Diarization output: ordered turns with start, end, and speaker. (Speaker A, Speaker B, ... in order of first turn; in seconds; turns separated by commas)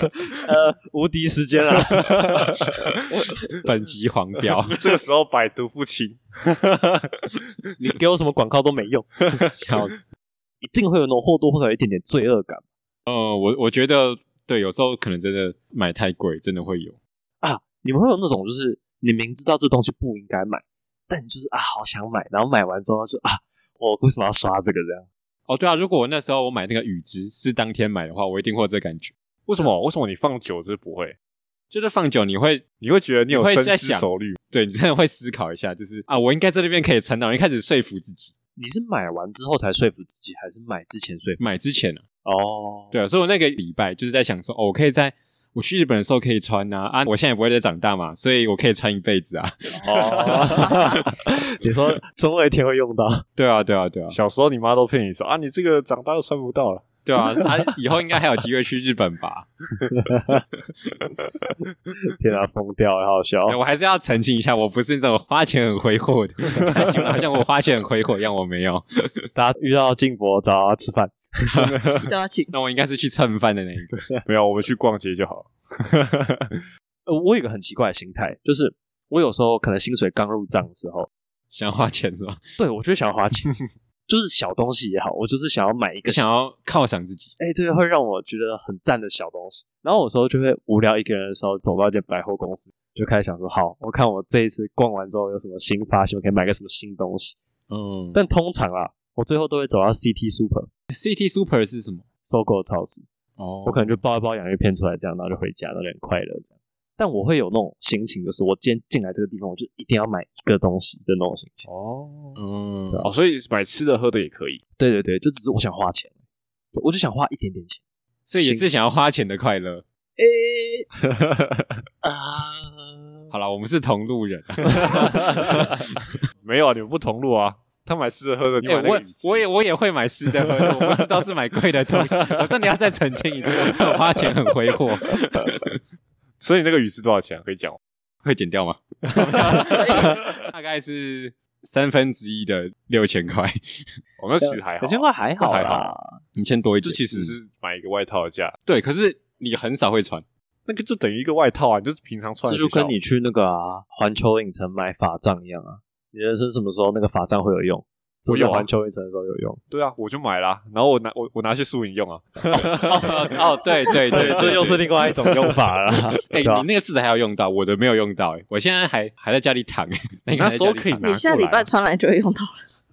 Speaker A: 0.4-2.3, Speaker B: 3.6-4.8, Speaker C: 4.7-7.4, Speaker A: 7.8-9.2, Speaker B: 9.5-10.1, Speaker A: 10.6-12.6, Speaker B: 13.1-17.0, Speaker A: 17.4-25.1, Speaker B: 25.5-29.1, Speaker C: 29.5-31.1, Speaker B: 31.7-32.6, Speaker C: 32.8-34.4, Speaker B: 33.3-38.3, Speaker A: 38.6-41.4, Speaker B: 41.4-42.0, Speaker A: 42.2-42.9, Speaker B: 42.9-51.1, Speaker A: 49.8-53.2, Speaker B: 53.4-54.2, Speaker C: 54.1-56.9, Speaker B: 57.0-59.5, Speaker A: 60.0-60.4, Speaker A: 62.0-63.6, Speaker B: 63.5-69.1, Speaker A: 69.3-71.3, Speaker B: 71.5-74.1, Speaker C: 71.6-72.1, Speaker D: 72.1-72.5, Speaker C: 74.3-76.6, Speaker A: 77.1-81.1, Speaker B: 81.5-82.4, Speaker A: 82.6-83.5, Speaker A: 84.1-86.3, Speaker B: 86.0-87.3, Speaker A: 87.4-97.4, Speaker B: 97.7-98.2, Speaker A: 98.1-100.7, Speaker B: 100.9-102.0, Speaker A: 102.2-103.0, Speaker B: 103.4-104.0, Speaker A: 103.6-111.7, Speaker C: 111.7-112.4, Speaker B: 112.4-113.1, Speaker C: 113.0-114.6, Speaker A: 114.8-116.1, Speaker A: 116.7-117.8, Speaker B: 118.3-119.8, Speaker A: 118.4-119.0, Speaker A: 120.2-120.9, Speaker C: 121.1-121.7, Speaker A: 122.0-123.3, Speaker B: 123.3-125.8, Speaker C: 124.8-125.7, Speaker C: 126.4-129.4, Speaker B: 128.6-135.8, Speaker C: 136.4-137.8, Speaker B: 138.2-143.8, Speaker C: 139.4-140.0, Speaker C: 144.2-145.1, Speaker A: 144.4-146.2, Speaker B: 145.4-147.3, Speaker C: 146.8-148.5, Speaker B: 148.7-150.2, Speaker C: 150.7-152.9, Speaker A: 152.5-159.6, Speaker C: 158.3-158.7, Speaker C: 159.7-163.1, Speaker B: 162.8-165.1, Speaker A: 162.8-163.4, Speaker A: 164.1-166.7, Speaker B: 166.3-171.1, Speaker C: 170.3-171.7, Speaker D: 171.0-172.6